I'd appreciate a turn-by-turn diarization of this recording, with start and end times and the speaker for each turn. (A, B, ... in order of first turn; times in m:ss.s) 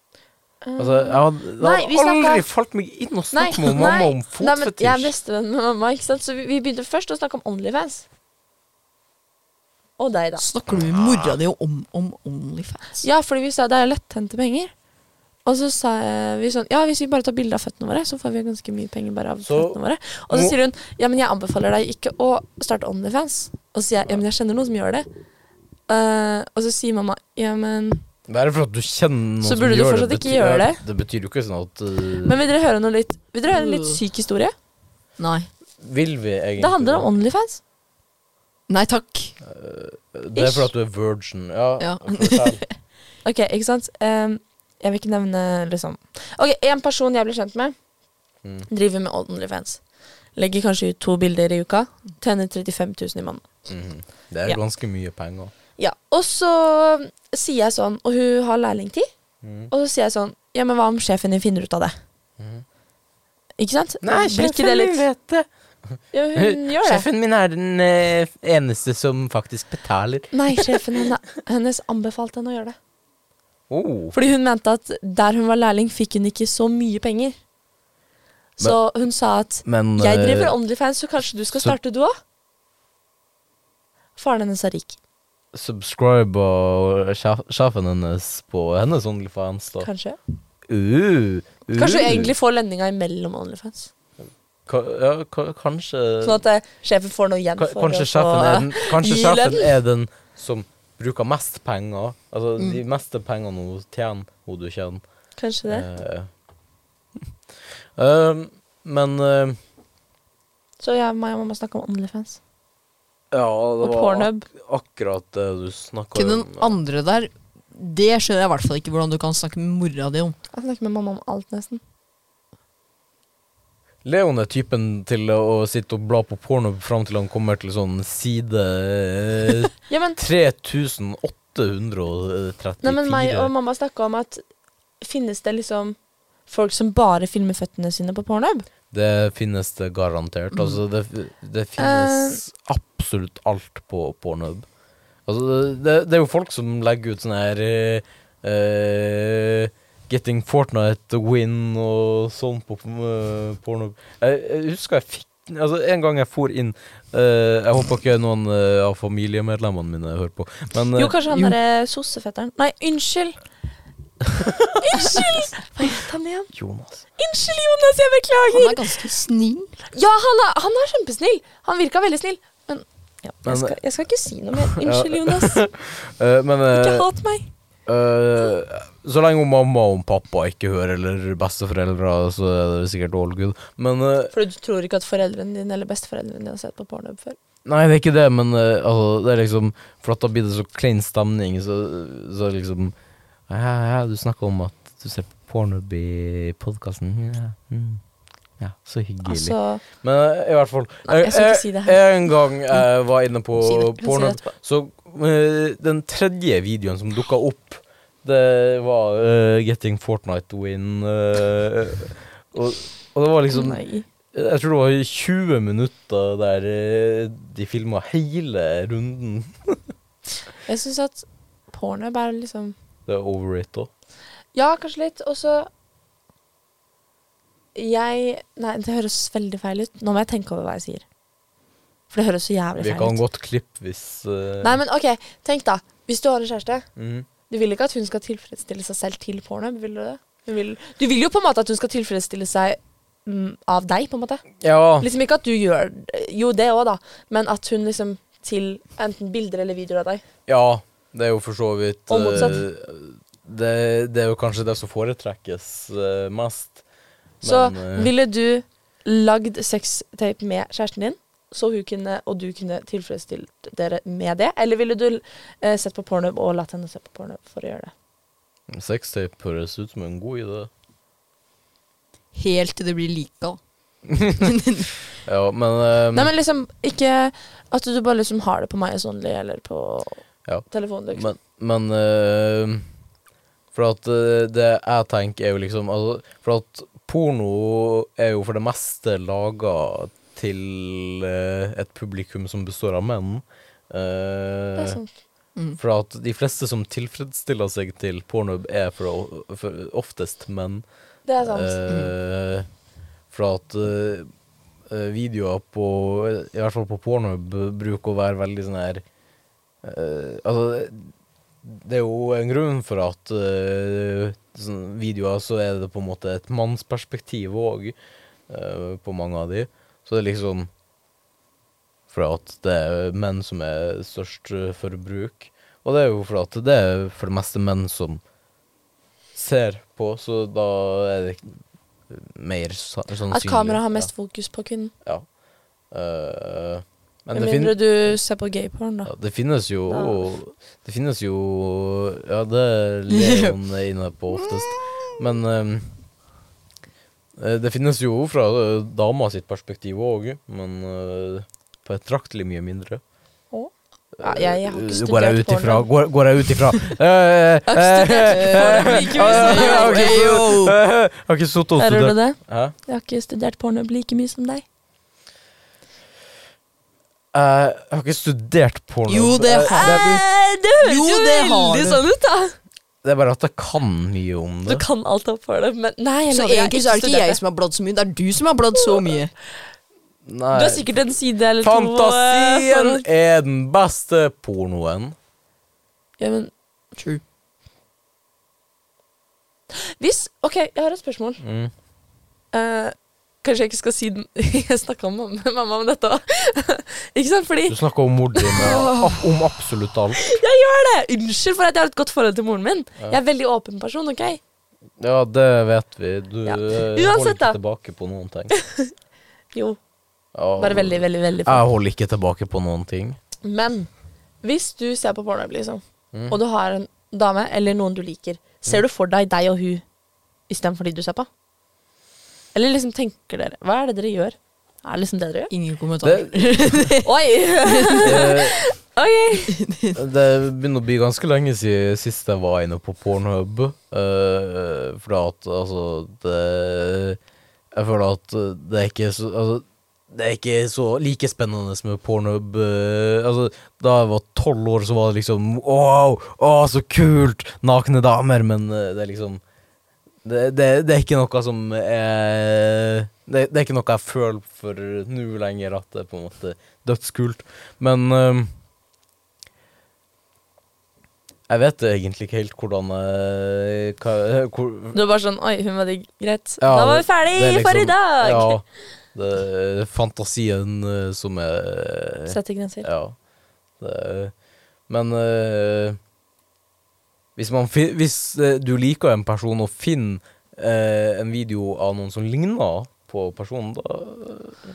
0:00.6-0:02.4 A
0:00.8-0:05.1 B
0:03.3-0:08.0 A
0:10.0-0:10.4 A
0:10.4-0:13.0 C
0:10.7-0:11.4 B
0:13.0-0:14.7 A
0:15.4-0:25.1 A
0:19.4-0:19.8 B
0:20.3-0:20.6 B
0:25.9-0:28.0 A
0:28.3-0:32.4 B
0:29.4-0:30.8 A
0:32.2-0:34.5 A
0:33.5-0:34.0 C
0:35.2-0:35.5 C
0:35.8-0:37.1 B
0:36.6-0:37.6 A
0:38.7-0:39.3 C
0:39.4-0:42.6 B
0:40.3-0:40.7 A
0:41.8-0:42.7 C
0:43.2-0:47.7 A
0:48.7-0:49.8 A
0:50.4-0:53.5 A
0:53.7-0:55.5 B
0:55.8-0:59.1 A
0:59.4-0:59.7 B
0:59.7-1:01.9 A
1:02.4-1:02.6 B
1:03.6-1:05.0 A
1:04.0-1:05.5 B
1:06.1-1:07.1 A
1:06.3-1:11.0 B
1:10.3-1:12.8 A
1:13.7-1:14.1 B
1:14.1-1:17.3 A
1:18.6-1:22.1 A
1:19.6-1:20.5 B
1:24.2-1:25.0 A
1:25.5-1:29.9 B
1:29.8-1:30.2 A
1:30.7-1:32.3 B
1:31.7-1:33.9 A
1:34.7-1:36.4 B
1:36.2-1:39.7 A
1:37.6-1:45.0 B
1:45.4-1:45.8 A
1:45.7-1:46.3 B
1:48.0-1:49.6 B
1:50.8-1:52.4 A
1:53.3-1:56.7 B
1:53.8-1:54.4 A
1:56.1-2:00.4 C
2:00.5-2:01.8 A
2:04.0-2:13.5 B
2:09.9-2:10.2 A
2:12.8-2:14.4 A
2:15.0-2:18.7 A
2:18.9-2:24.6 B
2:21.8-2:22.4 A
2:25.3-2:41.5 B
2:41.0-2:43.4 A
2:44.3-2:45.3 B
2:44.8-2:46.5 A
2:46.5-2:47.0 B
2:47.2-2:48.8 A
2:48.5-2:49.8 C
2:49.9-2:55.6 A
2:53.4-2:53.7 B
2:54.6-2:57.1 B
2:56.7-2:57.5 A
2:57.9-3:04.3 B
3:04.3-3:07.4 A
3:07.6-3:12.9 B
3:13.5-3:18.0 B
3:18.6-3:33.8 B
3:19.2-3:19.8 A
3:21.0-3:22.0 A
3:23.6-3:24.1 C
3:24.0-3:24.4 A
3:33.5-3:34.0 A
3:34.3-3:39.8 B
3:40.6-3:42.8 A
3:43.1-3:43.9 B
3:44.5-3:45.7 A
3:47.7-3:51.0 A
3:52.1-3:53.2 A
3:52.8-3:54.8 B
3:54.6-3:56.8 A
3:57.0-3:57.3 B
3:57.5-4:04.4 A
4:04.6-4:05.1 B
4:05.0-4:10.2 A
4:10.5-4:16.8 B
4:12.1-4:12.6 A
4:17.4-4:18.1 B
4:17.4-4:27.9 A
4:28.7-4:30.7 B
4:32.3-4:33.6 C
4:34.1-4:34.5 B
4:34.4-4:34.9 C
4:35.2-4:36.3 B
4:36.1-4:41.3 A
4:40.4-4:42.8 B
4:43.7-4:55.0 B
4:54.8-4:55.1 A
4:55.8-5:00.8 B
5:01.2-5:01.8 A
5:01.4-5:02.6 B
5:03.3-5:04.3 B
5:04.9-5:09.0 B
5:09.8-5:11.1 B
5:11.6-5:18.0 B
5:18.5-5:20.7 B
5:22.1-5:28.2 B
5:29.3-5:31.5 B
5:32.1-5:34.1 B
5:33.3-5:34.9 A
5:35.9-5:37.8 B
5:37.3-5:39.1 A
5:39.0-5:45.9 B
5:39.9-5:40.3 A
5:43.1-5:43.5 C
5:44.3-5:45.1 C
5:47.4-5:53.0 B
5:53.5-5:55.9 A
5:54.2-6:02.7 B
5:57.7-6:00.3 A
5:58.3-6:00.8 C
6:01.8-6:04.6 A
6:07.3-6:10.2 B
6:09.1-6:10.2 C
6:09.7-6:12.6 A
6:10.8-6:12.0 C
6:13.0-6:14.8 B
6:14.7-6:17.4 A
6:16.3-6:19.3 C
6:20.2-6:20.9 B
6:20.5-6:23.0 A
6:21.6-6:25.1 B
6:26.2-6:26.5 A
6:26.9-6:27.2 C
6:29.7-6:31.4 A
6:31.4-6:31.7 B
6:32.5-6:37.8 A
6:37.7-6:40.3 B
6:38.3-6:38.9 A
6:38.6-6:39.1 C
6:40.2-6:44.4 A
6:45.0-6:48.5 B
6:46.4-6:47.6 A
6:48.5-6:48.9 A
6:49.5-6:49.8 A
6:50.3-6:53.2 B
6:50.6-6:51.6 A
6:53.4-6:53.9 A
6:54.4-6:59.8 A
7:00.5-7:01.3 A
7:02.5-7:05.5 A
7:05.5-7:07.1 C
7:06.0-7:06.9 B
7:07.0-7:09.6 A
7:07.7-7:08.2 C
7:08.0-7:08.6 B
7:09.5-7:10.0 C
7:09.9-7:17.2 B
7:17.7-7:29.4 B
7:30.2-7:38.5 B
7:41.5-7:45.0 B
7:44.9-7:48.6 A
7:46.6-7:48.6 B
7:49.1-7:53.2 B
7:52.3-7:52.9 A
7:53.8-7:54.3 B
7:54.9-7:56.0 B
7:57.4-8:04.6 B